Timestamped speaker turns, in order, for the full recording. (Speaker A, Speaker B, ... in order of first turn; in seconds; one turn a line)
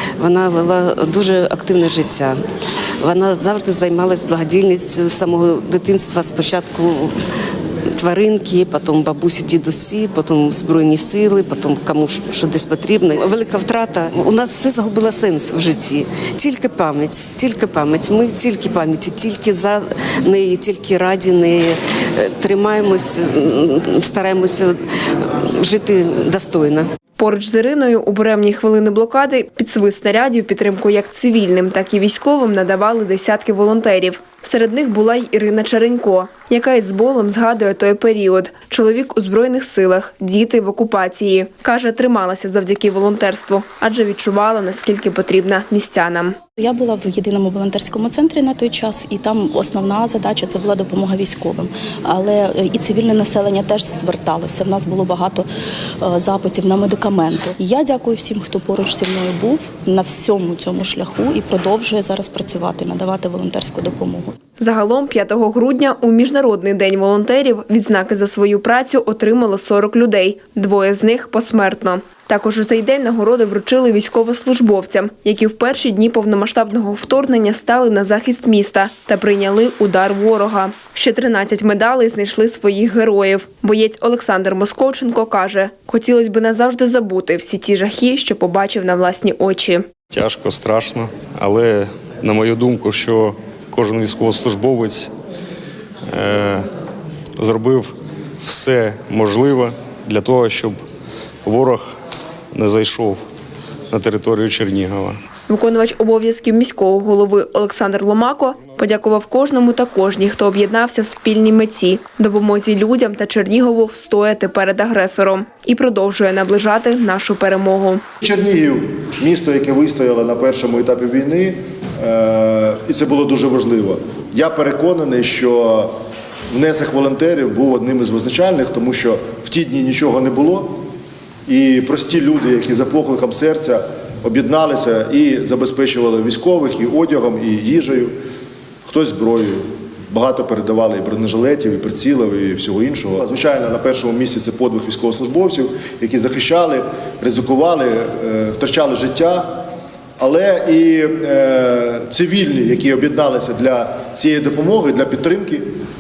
Speaker A: 0.2-2.4
Speaker A: 3.0-7.2
Speaker A: 7.9-26.9
Speaker B: 27.2-46.4
Speaker C: 46.6-55.5
Speaker C: 56.0-64.3
Speaker B: 64.6-89.9
Speaker D: 90.1-95.1
Speaker D: 96.1-96.7
Speaker D: 97.4-100.8
Speaker D: 101.5-101.9
Speaker D: 102.5-103.2
Speaker D: 103.9-105.2
Speaker B: 105.5-118.0
Speaker E: 118.2-125.9
Speaker E: 126.5-130.8
Speaker E: 131.5-138.2
Speaker E: 138.9-149.6
Speaker E: 150.2-155.7